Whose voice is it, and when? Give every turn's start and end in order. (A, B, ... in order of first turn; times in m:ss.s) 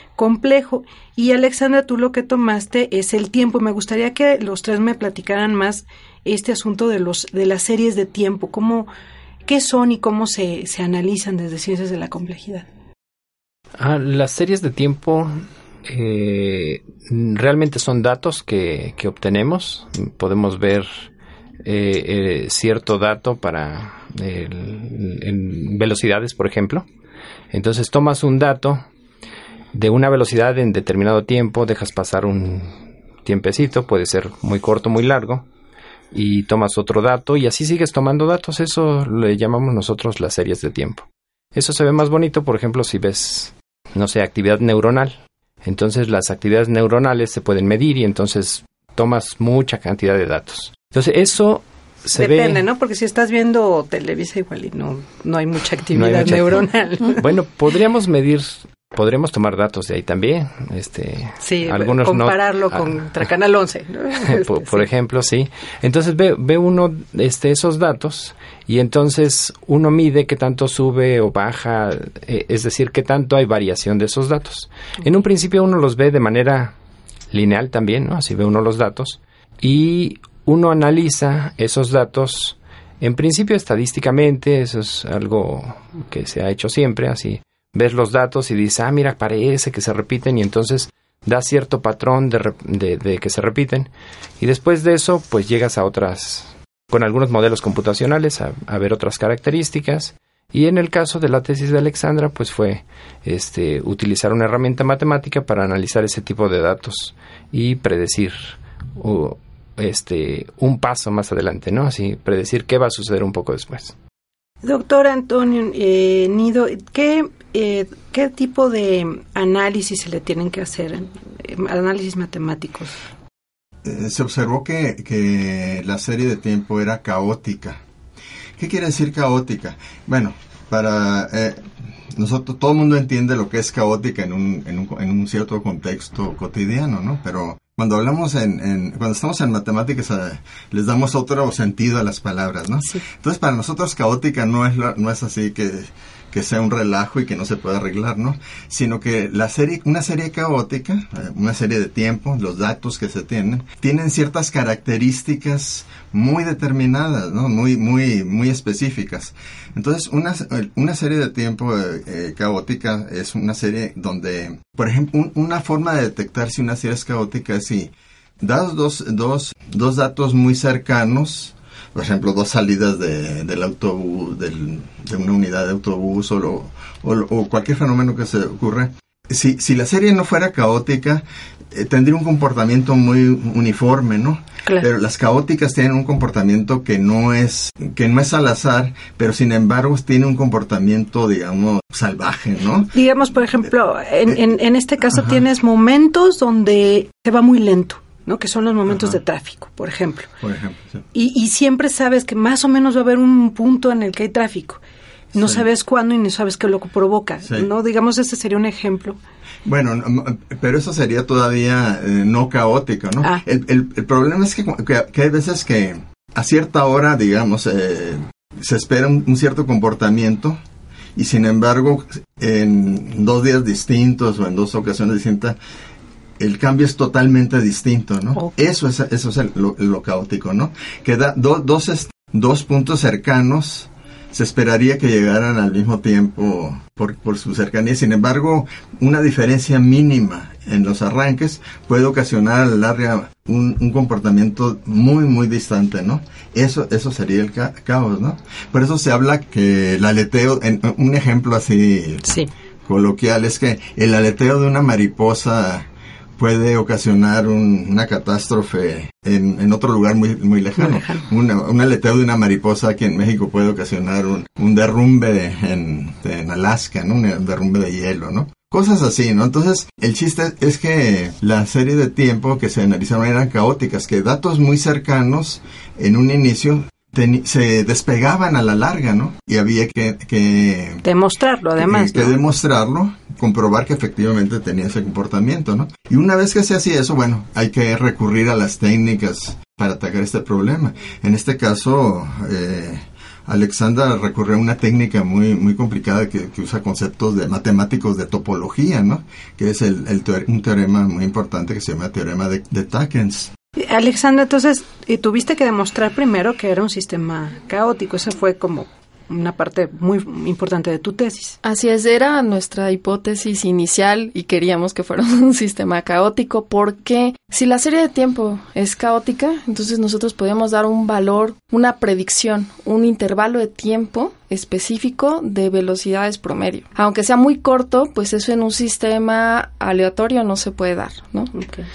0:00.2-0:08.9 A
0:09.5-0:12.7 A
0:13.8-0:21.1 B
0:21.6-0:26.9 B
0:27.5-0:28.8 B
0:29.7-0:35.5 B
0:36.1-0:52.6 B
0:52.2-0:57.3 A
0:55.9-1:03.3 B
1:01.4-1:04.8 A
1:04.2-1:16.7 B
1:17.3-1:54.0 B
1:54.6-2:03.0 A
2:03.8-2:07.8 C
2:08.6-3:12.9 C
3:12.9-3:20.3 A
3:15.1-3:15.4 C
3:18.9-3:19.2 C
3:20.4-3:21.0 C
3:21.1-3:24.8 A
3:25.3-3:29.2 A
3:25.4-3:25.7 C
3:29.6-3:40.6 C
3:41.2-3:45.6 C
3:46.4-4:12.2 C
4:12.2-4:12.5 A
4:12.8-4:41.0 C
4:20.8-4:21.2 A
4:41.0-4:42.4 A
4:41.8-5:03.5 C
5:03.8-5:11.6 A
5:11.6-5:31.5 D
5:31.5-5:31.9 A